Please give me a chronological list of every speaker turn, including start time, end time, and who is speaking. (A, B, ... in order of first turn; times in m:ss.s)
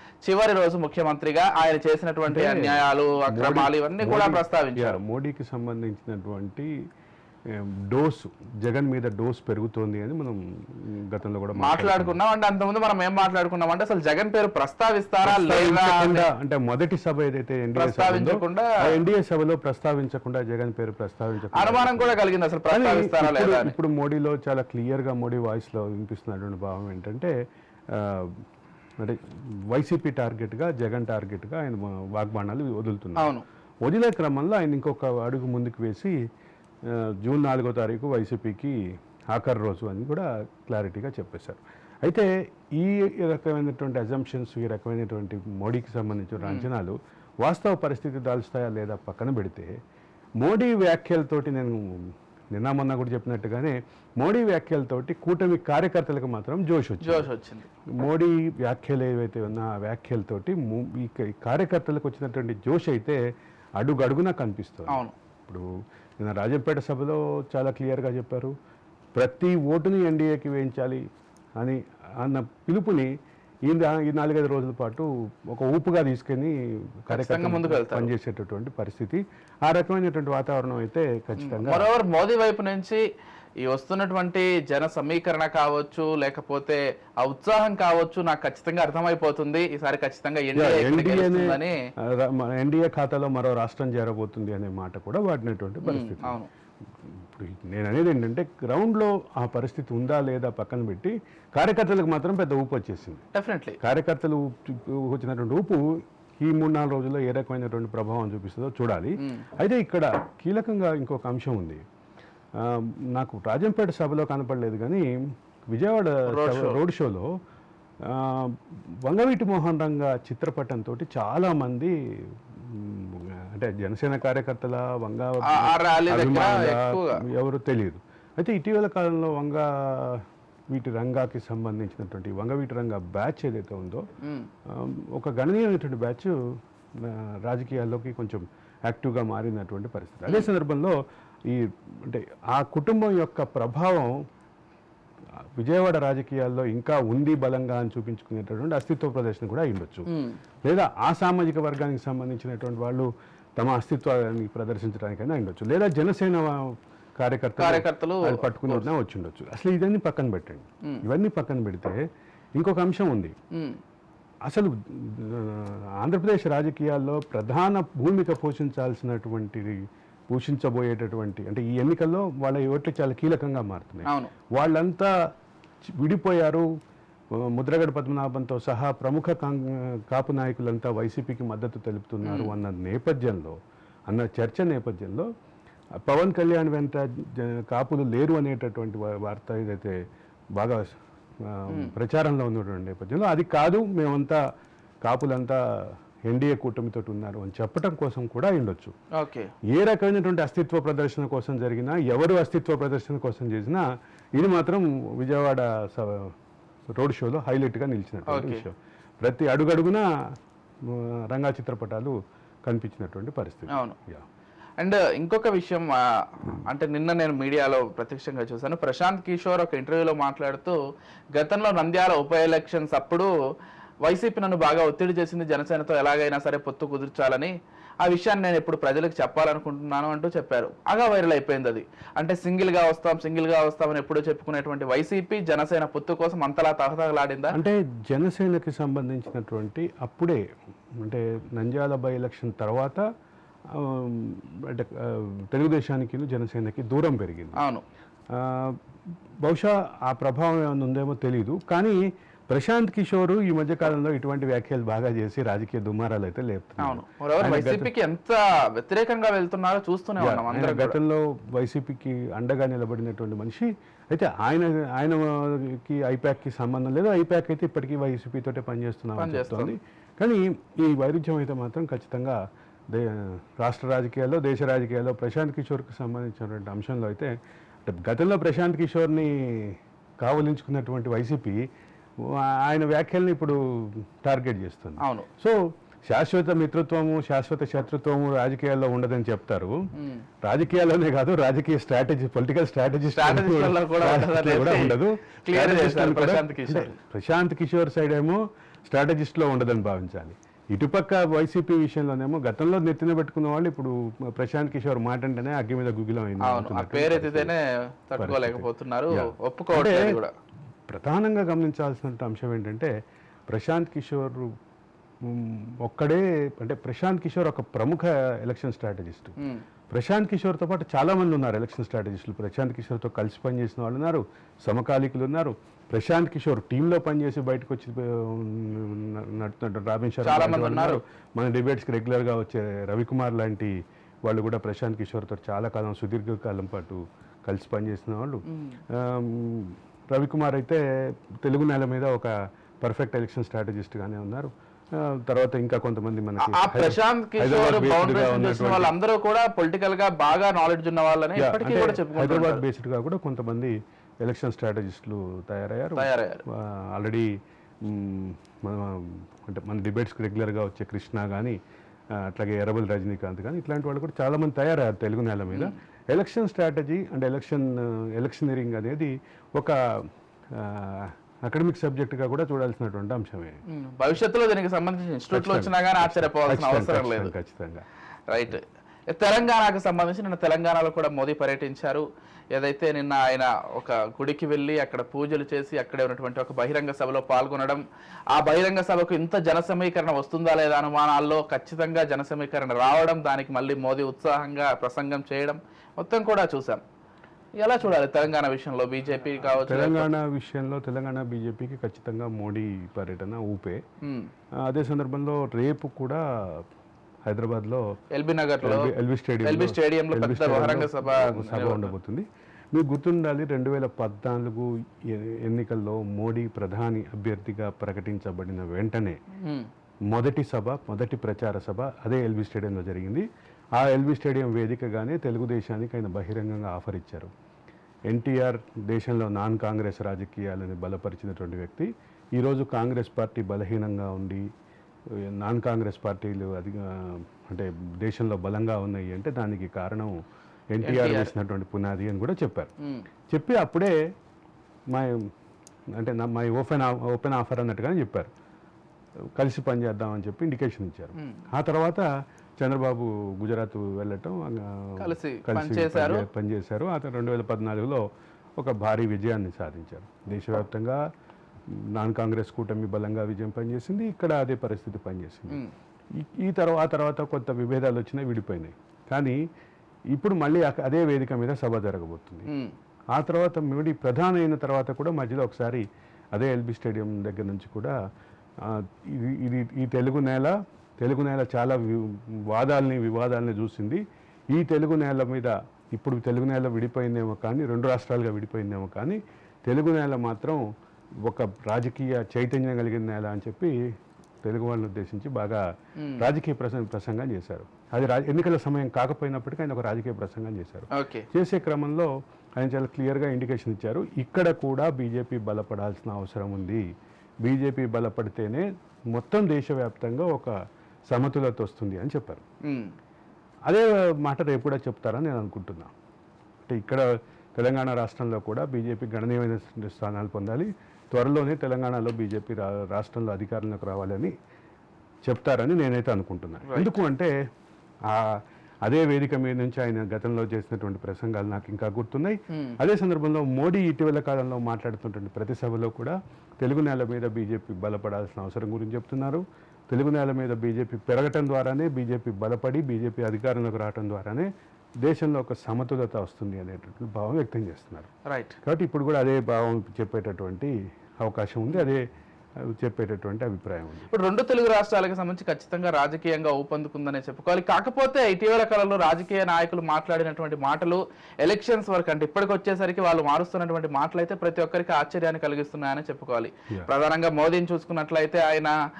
0:00.2-0:05.0 A
0:02.3-0:06.7 B
0:07.5-0:12.2 B
0:11.6-0:16.3 A
0:15.2-0:22.2 B
0:17.7-0:18.8 A
0:21.6-0:23.7 A
0:22.7-0:27.3 B
0:27.9-0:28.4 B
0:29.0-0:33.3 B
0:33.2-0:33.4 A
0:33.8-0:36.1 B
0:36.9-0:38.8 B
0:39.3-0:49.7 B
0:46.4-0:46.7 A
0:50.4-0:57.3 B
0:57.0-0:57.7 A
0:58.0-1:03.2 B
1:03.8-1:05.6 B
1:04.9-1:05.1 A
1:06.2-1:08.5 B
1:09.2-1:11.0 B
1:11.6-1:13.1 B
1:13.7-1:16.5 B
1:17.0-1:21.9 B
1:17.1-1:18.1 A
1:21.4-1:23.0 A
1:23.6-1:31.8 A
1:30.5-1:36.4 B
1:35.8-1:36.5 A
1:37.0-1:43.2 B
1:43.3-1:43.8 A
1:43.8-1:51.8 B
1:52.6-1:55.1 B
1:55.7-1:57.3 B
1:56.3-1:56.8 A
1:58.0-2:01.9 B
2:02.5-2:14.0 B
2:05.4-2:07.2 A
2:14.2-2:14.5 A
2:14.7-2:16.4 B
2:17.0-2:21.0 B
2:21.5-2:24.1 B
2:25.6-2:30.0 B
2:30.1-2:30.4 A
2:30.6-2:42.0 B
2:37.6-2:38.9 A
2:42.6-2:43.3 B
2:43.5-2:43.8 A
2:44.5-2:49.8 B
2:50.3-2:55.1 B
2:54.0-2:54.3 A
2:56.0-2:56.7 B
2:57.4-3:03.6 B
3:02.2-3:02.5 A
3:04.1-3:05.3 B
3:06.0-3:10.0 B
3:10.6-3:14.4 B
3:11.7-3:11.9 A
3:15.0-3:15.6 B
3:16.3-3:18.9 B
3:19.1-3:19.5 A
3:19.7-3:26.3 B
3:27.0-3:30.0 B
3:28.3-3:28.6 A
3:30.8-3:32.1 B
3:32.6-3:34.2 B
3:33.7-3:34.0 A
3:34.8-3:40.8 A
3:41.3-3:43.3 A
3:44.0-3:57.6 A
3:57.5-4:00.4 B
4:01.0-4:03.0 B
4:03.7-4:07.6 B
4:07.6-4:07.8 A
4:08.3-4:08.8 B
4:09.4-4:17.9 B
4:16.8-4:21.0 A
4:20.2-4:37.3 B
4:29.2-4:29.8 A
4:37.8-4:41.6 B
4:42.2-4:45.6 B
4:45.0-4:45.3 A
4:46.1-4:49.8 B
4:50.4-5:07.5 B
4:53.1-4:56.9 A
5:06.4-5:10.3 A
5:08.2-5:10.2 B
5:10.9-5:12.9 B
5:13.5-5:14.5 B
5:15.2-5:19.3 B
5:19.9-5:33.7 B
5:30.2-5:31.0 A
5:34.2-5:40.8 B
5:38.5-5:38.8 A
5:41.4-5:48.9 B
5:46.4-5:52.6 A
5:51.4-5:57.3 B
5:56.0-5:56.4 A
5:57.8-6:01.6 B
6:02.1-6:13.6 B
6:13.7-6:17.3 A
6:15.3-6:18.6 B
6:18.3-6:36.8 A
6:37.6-6:40.1 A
6:39.4-6:43.8 B
6:44.0-6:44.3 A
6:44.6-6:46.6 B
6:47.3-6:47.8 B
6:48.1-6:48.9 A
6:48.6-6:59.2 B
6:49.4-6:51.9 A
6:59.4-6:59.7 A
7:00.1-7:03.2 B
7:03.8-7:07.3 B
7:08.1-7:14.4 B
7:15.1-7:20.1 B
7:20.7-7:22.7 B
7:20.8-7:21.3 A
7:22.8-7:23.0 A
7:23.3-7:23.9 B
7:24.9-7:25.3 B
7:26.0-7:28.3 B
7:29.4-7:32.1 B
7:31.2-7:31.4 A
7:32.6-7:38.0 B
7:35.0-7:36.2 A
7:38.6-7:41.0 B
7:41.7-7:45.6 B
7:46.2-7:49.4 B
7:50.1-7:52.5 B
7:52.5-7:52.7 A
7:53.1-7:57.9 B
7:58.6-8:10.6 B
8:11.2-8:13.8 B
8:14.4-8:15.6 B
8:16.0-8:16.3 A
8:16.2-8:26.8 B
8:20.9-8:21.2 A
8:27.4-8:30.5 B
8:31.1-8:32.4 B
8:32.6-8:32.9 A
8:33.7-8:35.9 B
8:36.7-8:44.3 B
8:45.2-8:47.3 B
8:46.7-8:47.0 A
8:48.1-9:04.5 B
8:52.5-8:52.8 A
9:05.0-9:08.1 B
9:08.2-9:08.6 A
9:08.6-9:12.0 B
9:12.6-9:14.1 B
9:14.1-9:28.7 A